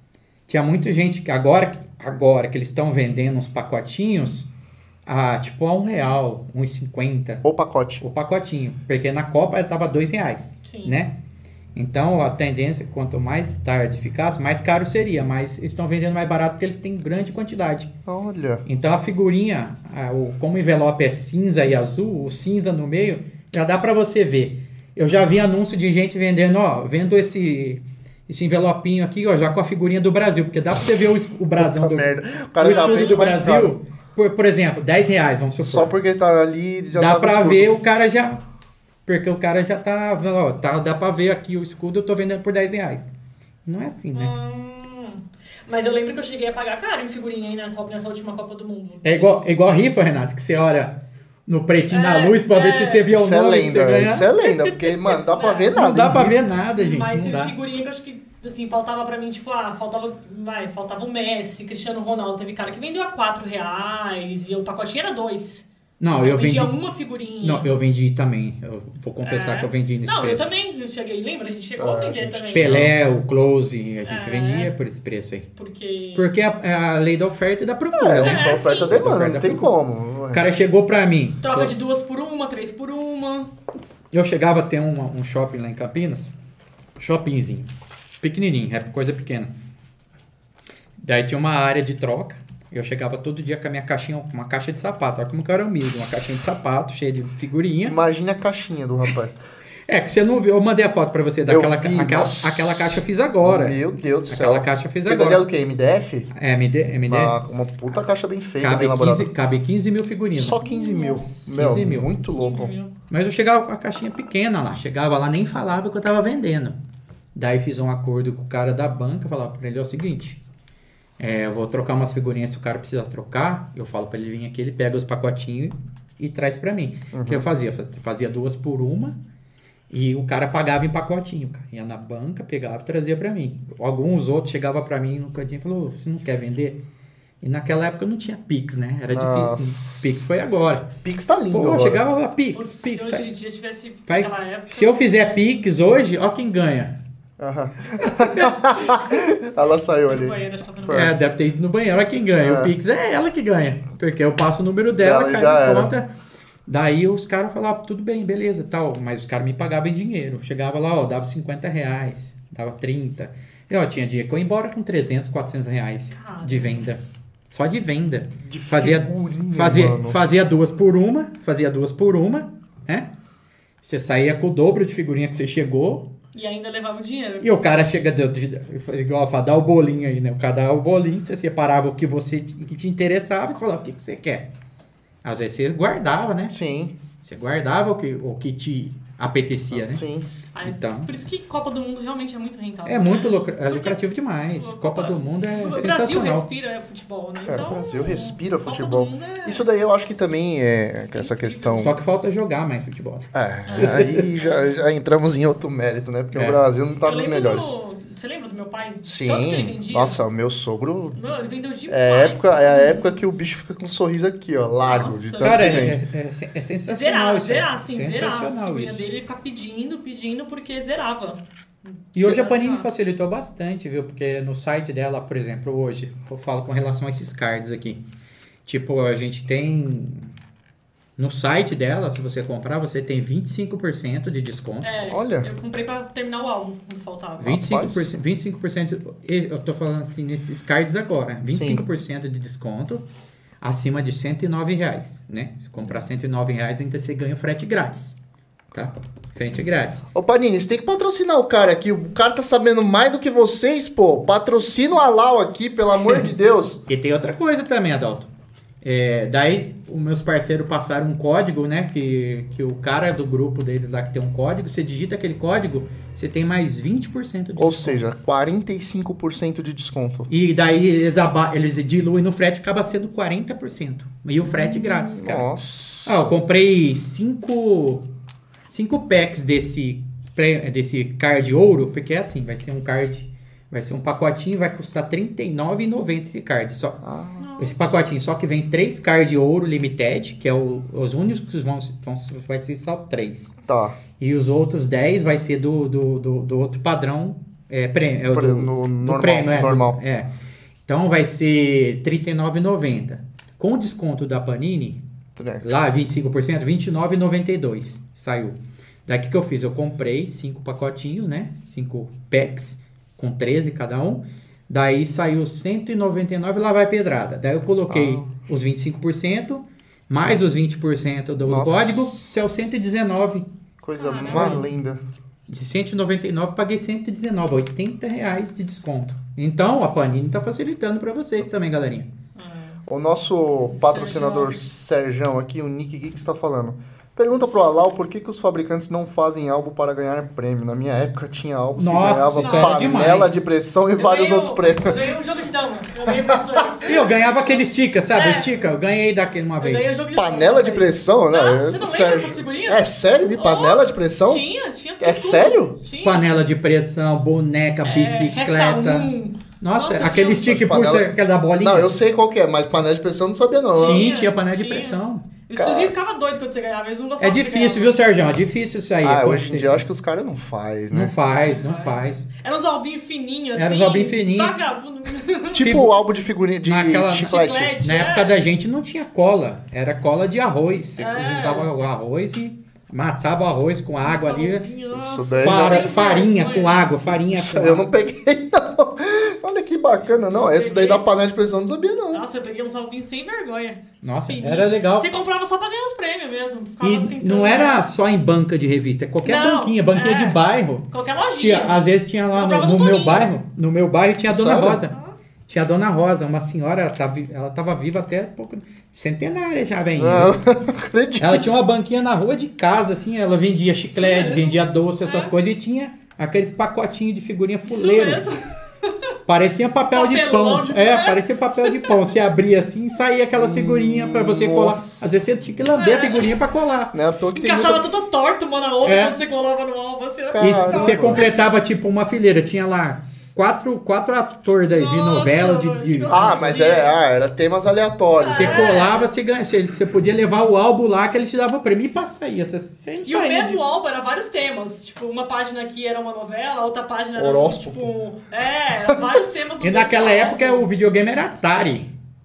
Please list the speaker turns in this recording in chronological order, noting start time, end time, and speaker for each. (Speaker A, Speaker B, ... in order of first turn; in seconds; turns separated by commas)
Speaker A: 0.5-4.5, Speaker A: 5.0-7.4, Speaker B: 7.4-8.0, Speaker A: 8.0-11.2, Speaker C: 10.6-10.9, Speaker A: 11.7-17.9, Speaker B: 18.1-18.6, Speaker A: 18.6-35.9, Speaker B: 31.6-33.8, Speaker C: 32.6-33.3, Speaker B: 35.6-37.7, Speaker A: 36.9-38.4, Speaker A: 39.0-43.1, Speaker A: 43.6-44.3, Speaker C: 44.1-49.3, Speaker A: 49.0-54.3, Speaker C: 51.9-53.1, Speaker B: 53.1-56.4, Speaker C: 54.5-55.8, Speaker A: 55.7-57.5, Speaker C: 56.7-65.7, Speaker A: 66.0-66.7, Speaker C: 66.2-67.7, Speaker A: 67.4-70.5, Speaker C: 69.2-72.9, Speaker B: 71.8-72.9, Speaker A: 72.5-75.5, Speaker C: 74.0-74.7, Speaker C: 75.5-76.3, Speaker A: 76.1-79.7, Speaker B: 77.9-80.5, Speaker C: 78.2-79.0, Speaker A: 80.3-81.7, Speaker C: 81.4-83.5, Speaker A: 84.1-86.3, Speaker A: 87.0-87.7, Speaker A: 88.2-89.5, Speaker A: 91.0-98.0, Speaker B: 95.8-96.5, Speaker B: 97.8-99.4, Speaker A: 99.9-105.4, Speaker B: 101.5-106.3, Speaker A: 106.3-107.4, Speaker B: 107.1-109.3, Speaker A: 108.6-110.6, Speaker B: 110.3-112.7, Speaker C: 110.6-111.3, Speaker A: 111.5-112.1, Speaker C: 112.3-112.9, Speaker A: 113.1-116.8, Speaker A: 117.3-120.4, Speaker A: 121.2-129.2, Speaker B: 127.1-127.5, Speaker A: 129.9-136.8, Speaker A: 137.4-140.9, Speaker B: 139.1-140.3, Speaker B: 141.0-142.1, Speaker A: 141.5-143.3, Speaker C: 142.5-145.4, Speaker A: 144.1-146.9, Speaker B: 147.4-151.1, Speaker A: 148.0-149.1, Speaker C: 150.1-151.1, Speaker A: 150.9-156.1, Speaker B: 152.4-152.7, Speaker B: 155.0-155.9, Speaker A: 156.7-173.1, Speaker C: 166.1-166.9, Speaker B: 168.4-170.2, Speaker A: 173.8-176.1, Speaker C: 176.3-177.5, Speaker A: 177.4-184.5, Speaker A: 185.2-186.5, Speaker B: 186.5-186.9, Speaker A: 187.2-190.0, Speaker B: 189.7-190.3, Speaker C: 190.5-199.7, Speaker A: 190.6-191.1, Speaker A: 192.8-196.5, Speaker B: 197.4-201.9, Speaker C: 201.1-202.0, Speaker A: 201.8-204.2, Speaker B: 203.3-207.7, Speaker C: 203.7-204.7, Speaker A: 206.3-206.6, Speaker C: 207.0-210.2, Speaker B: 209.0-211.3, Speaker C: 211.2-213.2, Speaker B: 211.9-216.0, Speaker C: 214.8-215.9, Speaker A: 215.4-219.0, Speaker C: 216.9-222.9, Speaker A: 222.1-228.0, Speaker A: 228.6-230.3, Speaker A: 231.2-235.0, Speaker C: 234.8-237.6, Speaker B: 235.1-235.5, Speaker A: 237.4-243.0, Speaker B: 237.4-238.1, Speaker B: 241.5-241.8, Speaker A: 243.6-248.2, Speaker A: 248.7-250.0, Speaker B: 250.1-256.8, Speaker A: 256.9-258.3, Speaker A: 258.8-268.0, Speaker B: 267.6-270.3, Speaker A: 270.3-275.5, Speaker B: 274.4-276.3, Speaker A: 276.0-278.1, Speaker A: 278.7-287.0, Speaker B: 287.0-287.4, Speaker C: 287.4-288.0, Speaker A: 287.6-293.5, Speaker B: 293.6-294.0, Speaker A: 294.2-300.3, Speaker B: 298.3-300.0, Speaker A: 300.9-305.0, Speaker B: 305.4-305.7, Speaker A: 305.6-308.6, Speaker A: 309.1-323.5, Speaker B: 317.9-318.3, Speaker B: 321.4-322.2, Speaker B: 323.8-325.0, Speaker C: 324.0-324.6, Speaker A: 324.3-324.6, Speaker A: 325.5-332.1, Speaker C: 332.4-332.8, Speaker B: 332.9-345.1, Speaker C: 333.8-334.6, Speaker A: 341.8-343.4, Speaker C: 342.4-343.1, Speaker C: 344.0-348.6, Speaker B: 346.0-346.9, Speaker A: 346.8-349.9, Speaker C: 349.6-356.3, Speaker B: 350.1-354.4, Speaker B: 355.0-355.8, Speaker A: 356.0-361.9, Speaker C: 357.8-360.5, Speaker B: 360.3-364.1, Speaker C: 363.7-368.1, Speaker A: 363.8-365.3, Speaker B: 365.5-365.9, Speaker A: 367.2-369.8, Speaker B: 369.0-371.1, Speaker A: 370.9-372.3, Speaker C: 371.4-375.7, Speaker A: 373.5-374.6, Speaker B: 375.5-377.7, Speaker A: 375.6-375.9, Speaker A: 376.6-384.6, Speaker C: 377.2-378.4, Speaker C: 381.0-381.7, Speaker C: 384.0-386.9, Speaker B: 384.9-385.9, Speaker A: 385.4-387.9, Speaker B: 387.2-392.2, Speaker C: 390.1-391.2, Speaker C: 392.1-397.9, Speaker A: 394.0-395.1, Speaker A: 396.8-404.9, Speaker C: 399.2-403.3, Speaker B: 404.3-404.9, Speaker A: 405.5-410.4, Speaker B: 410.0-411.6, Speaker A: 411.2-418.2, Speaker C: 413.9-415.3, Speaker C: 417.6-419.1, Speaker A: 419.3-426.9, Speaker C: 419.9-422.0, Speaker B: 423.3-425.2, Speaker C: 425.8-426.4, Speaker B: 426.9-427.8, Speaker C: 427.3-431.4, Speaker A: 428.8-429.2, Speaker B: 430.3-431.3, Speaker A: 430.4-436.6, Speaker C: 434.7-436.9, Speaker B: 436.1-438.9, Speaker C: 438.2-439.1, Speaker A: 438.3-443.6, Speaker C: 443.1-450.7, Speaker B: 447.1-447.9, Speaker B: 448.8-449.4, Speaker A: 449.6-451.9